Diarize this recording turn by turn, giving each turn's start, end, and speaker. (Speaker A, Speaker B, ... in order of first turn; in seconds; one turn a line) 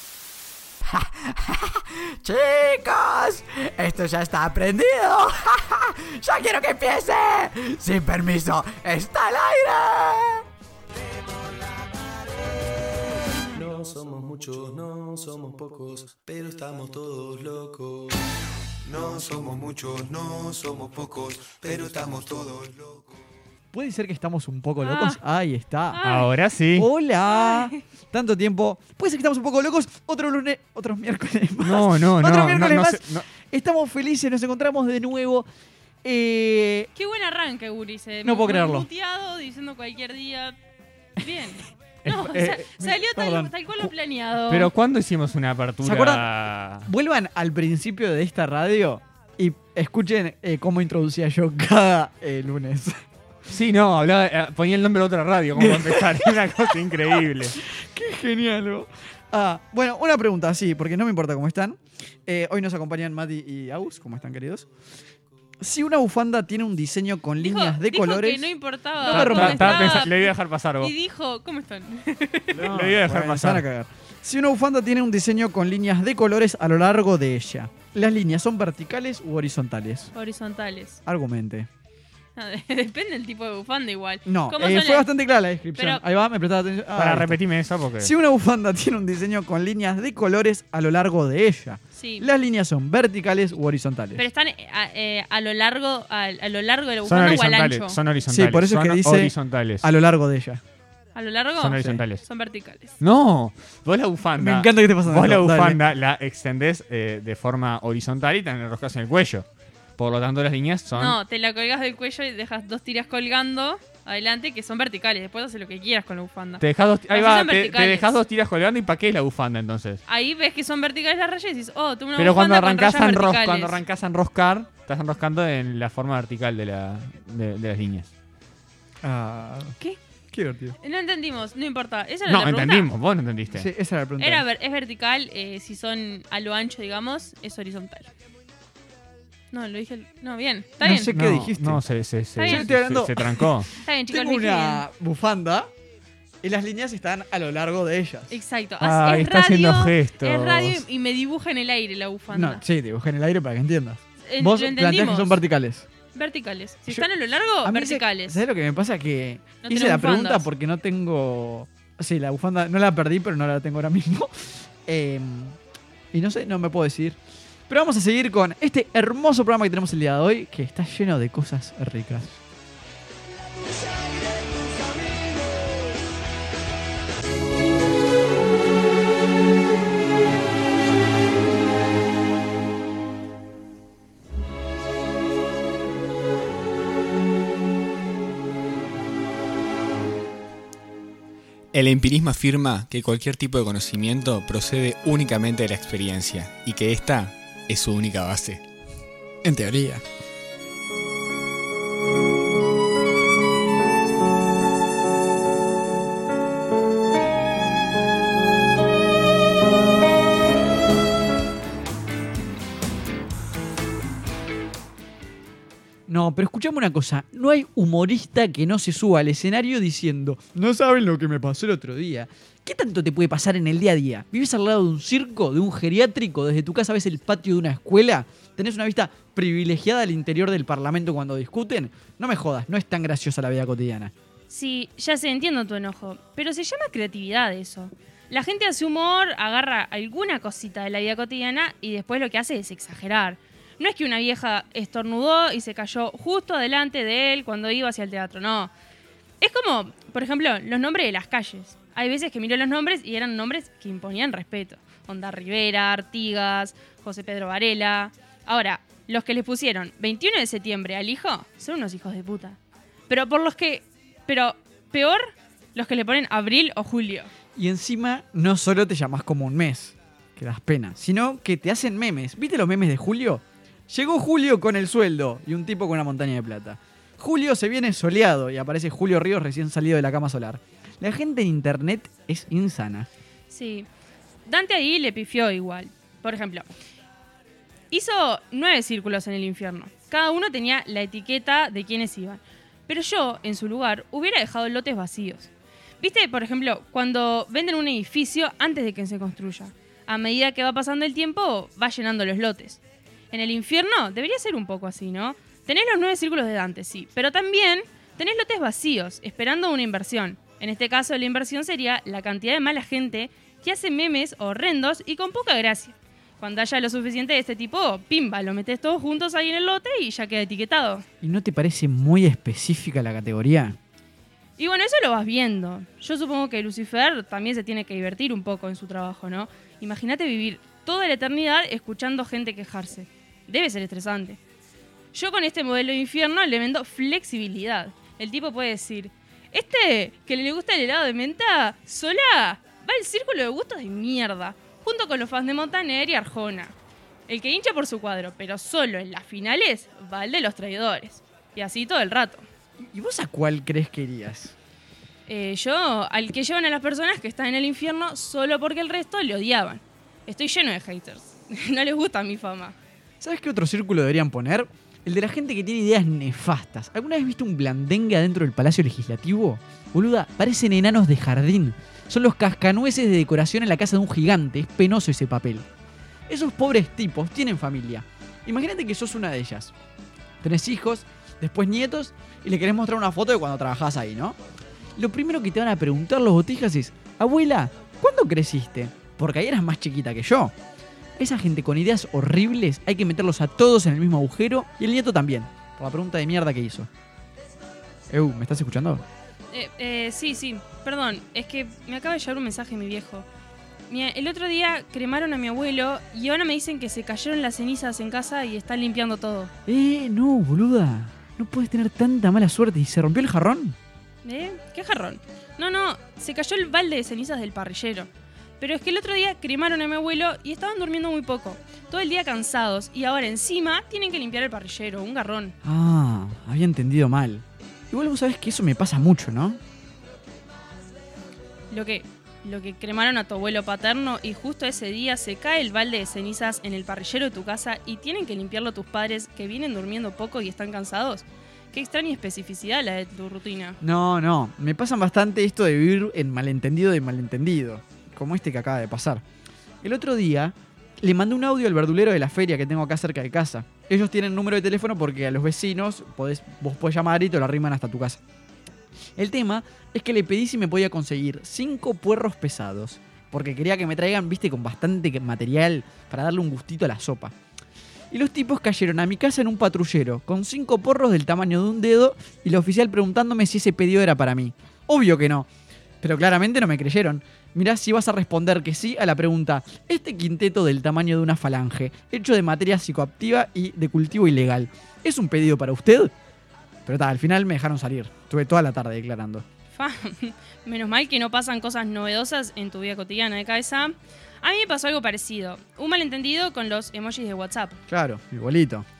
Speaker A: 0.9-10.4
Speaker B: 10.9-18.1
Speaker B: 18.8-23.2
Speaker A: 23.7-26.0
Speaker C: 24.8-25.2
Speaker C: 25.9-26.3
Speaker D: 26.0-26.9
Speaker A: 26.7-35.5
Speaker C: 27.3-27.8
Speaker D: 31.6-33.2
Speaker A: 36.0-36.9
Speaker C: 37.0-40.5
Speaker A: 38.2-38.9
Speaker C: 41.2-44.7
Speaker A: 42.1-43.5
Speaker D: 44.5-46.9
Speaker A: 45.8-46.3
Speaker A: 46.8-53.0
Speaker D: 53.5-57.6
Speaker A: 55.5-64.7
Speaker A: 65.6-70.1
Speaker C: 67.4-72.6
Speaker D: 69.1-70.9
Speaker A: 72.5-80.1
Speaker D: 72.7-73.6
Speaker C: 80.1-81.0
Speaker A: 81.0-81.7
Speaker C: 82.4-85.1
Speaker A: 84.2-87.4
Speaker C: 85.8-86.0
Speaker D: 87.0-88.1
Speaker A: 88.0-94.2
Speaker C: 92.0-92.3
Speaker C: 94.2-98.0
Speaker D: 97.0-99.8
Speaker A: 98.3-100.6
Speaker C: 101.1-102.9
Speaker D: 101.6-102.2
Speaker D: 103.0-109.4
Speaker A: 104.4-105.8
Speaker D: 110.0-111.2
Speaker C: 111.0-118.1
Speaker D: 116.6-120.0
Speaker C: 120.1-123.8
Speaker D: 122.2-128.1
Speaker A: 129.0-129.8
Speaker A: 130.3-130.8
Speaker C: 130.8-132.9
Speaker D: 132.2-133.7
Speaker A: 133.5-134.4
Speaker C: 134.2-138.1
Speaker C: 139.5-141.1
Speaker A: 140.8-141.8
Speaker D: 141.1-143.7
Speaker C: 142.4-142.7
Speaker A: 142.4-143.5
Speaker C: 143.8-144.8
Speaker A: 144.1-145.7
Speaker A: 146.4-148.4
Speaker C: 148.3-152.6
Speaker D: 148.8-150.8
Speaker A: 152.3-155.9
Speaker C: 154.2-155.4
Speaker C: 156.1-158.4
Speaker A: 157.6-165.6
Speaker C: 159.6-160.5
Speaker A: 166.1-167.2
Speaker A: 167.7-172.4
Speaker B: 173.8-175.2
Speaker E: 191.7-198.6
Speaker A: 199.4-200.0
Speaker A: 216.1-234.1
Speaker C: 234.5-248.7
Speaker C: 249.4-262.6
Speaker C: 263.1-267.3
Speaker A: 267.6-283.1
Speaker C: 283.5-283.9
Speaker C: 284.4-286.6
Speaker C: 287.9-302.8
Speaker C: 303.3-321.0
Speaker A: 321.2-323.8
Speaker C: 324.6-334.4
Speaker C: 335.1-346.7
Speaker C: 347.3-352.4
Speaker A: 352.8-354.5
Speaker C: 355.3-362.8
Speaker A: 363.2-375.7
Speaker A: 376.3-379.7
Speaker A: 380.4-384.4
Speaker A: 384.9-390.5
Speaker A: 391.2-396.9
Speaker A: 398.1-399.0
Speaker C: 399.5-403.2
Speaker C: 403.9-409.5
Speaker A: 409.7-413.8
Speaker C: 414.2-418.1
Speaker C: 418.6-425.6
Speaker A: 425.6-429.6
Speaker C: 431.7-443.8
Speaker A: 443.8-449.2
Speaker A: 449.8-458.2
Speaker A: 459.2-467.3
Speaker A: 468.1-475.5
Speaker A: 476.0-486.1
Speaker A: 486.9-489.4
Speaker C: 489.7-497.8
Speaker A: 497.9-498.9